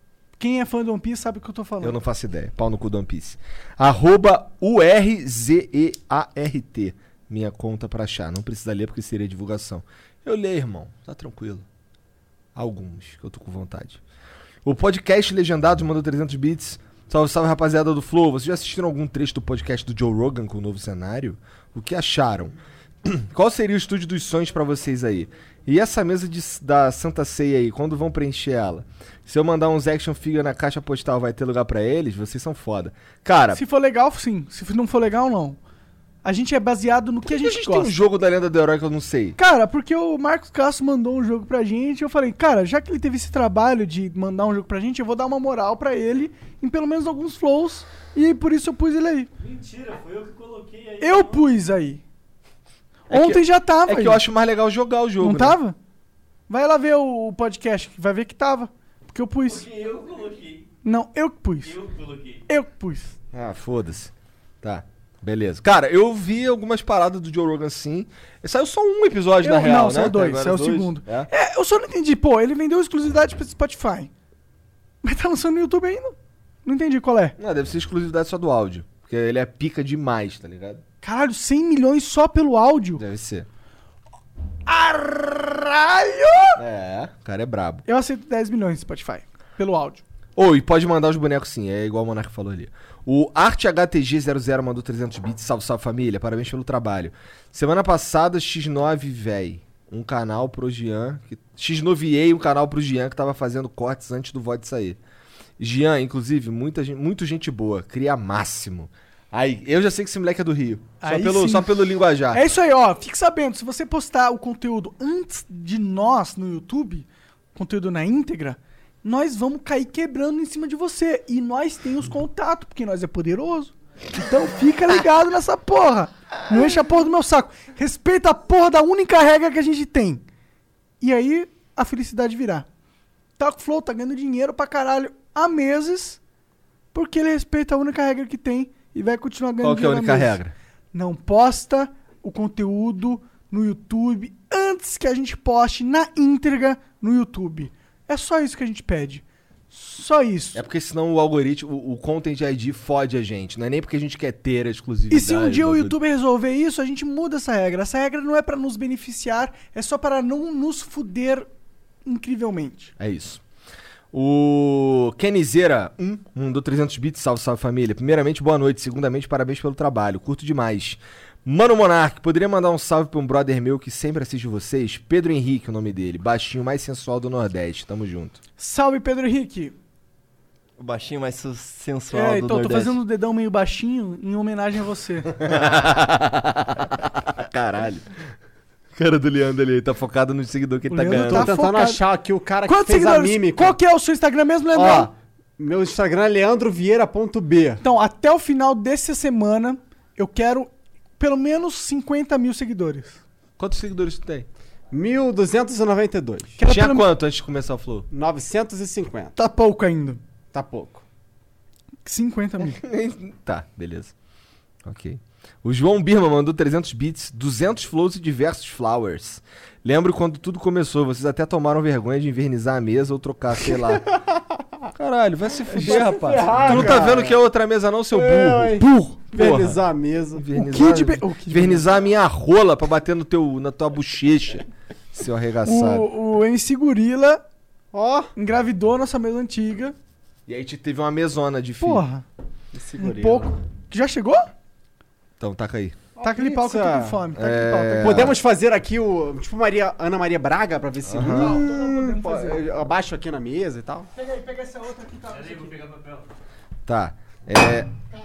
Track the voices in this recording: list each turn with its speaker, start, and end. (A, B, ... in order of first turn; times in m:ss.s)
0:00.4-0:02.0 A
0:01.8-0:11.6 B
0:12.6-0:14.0 B
0:14.6-0:22.5 B
0:23.0-0:33.6 B
0:33.5-0:35.6 A
0:36.2-0:37.9 A
0:37.3-0:39.4 B
0:39.4-0:49.3 A
0:49.4-0:51.5 C
0:51.0-0:52.0 A
0:53.1-0:54.2 A
0:53.1-0:55.6 B
0:55.2-0:55.8 A
0:56.5-0:59.7 A
0:59.4-1:00.7 C
1:00.8-1:01.8 A
1:01.6-1:02.4 C
1:02.5-1:03.2 A
1:03.3-1:11.3 B
1:09.4-1:14.1 A
1:15.0-1:17.4 A
1:17.4-1:20.8 B
1:21.0-1:23.0 A
1:23.0-1:23.5 B
1:24.7-1:26.6 A
1:26.6-1:27.8 B
1:27.9-1:30.0 A
1:30.4-1:45.0 B
1:45.6-1:52.4 B
1:51.0-2:10.2 A
2:11.0-2:12.7 A
2:13.4-2:16.2 A
2:16.9-2:20.4 A
2:19.6-2:20.5 B
2:20.9-2:30.6 A
2:30.5-2:36.0 B
2:35.1-2:41.5 A
2:42.1-2:42.9 A
2:43.0-2:43.4 B
2:44.1-2:58.4 B
2:58.6-2:59.8 A
3:00.8-3:03.0 D
3:02.1-3:05.4 A
3:05.4-3:08.1 B
3:09.0-3:11.5 B
3:10.9-3:12.0 A
3:11.1-3:13.8 E
3:12.7-3:15.1 A
3:14.8-3:17.8 E
3:17.8-3:23.2 A
3:23.6-3:24.5 B
3:24.9-3:26.6 E
3:26.6-3:27.1 A
3:26.6-3:28.1 B
3:28.1-3:29.4 E
3:29.4-3:30.2 A
3:30.5-3:31.0 E
3:32.0-3:32.8 A
3:32.6-3:34.1 B
3:34.8-3:44.1 B
3:44.1-3:44.4 E
3:45.0-3:49.8 B
3:45.7-3:47.4 E
3:46.5-3:47.0 A
3:48.1-3:50.4 E
3:48.7-3:49.2 A
3:50.4-3:56.1 B
3:50.6-3:51.8 A
3:55.6-3:57.4 A
3:57.9-3:58.3 E
3:58.4-4:00.0 A
4:00.5-4:02.0 B
4:01.8-4:02.2 A
4:02.7-4:03.5 E
4:03.0-4:04.5 A
4:05.4-4:06.0 B
4:06.2-4:08.3 A
4:06.2-4:07.2 E
4:07.4-4:08.4 B
4:08.0-4:14.1 E
4:11.1-4:11.6 B
4:11.2-4:12.8 A
4:14.1-4:15.7 A
4:15.3-4:16.3 C
4:16.9-4:17.9 B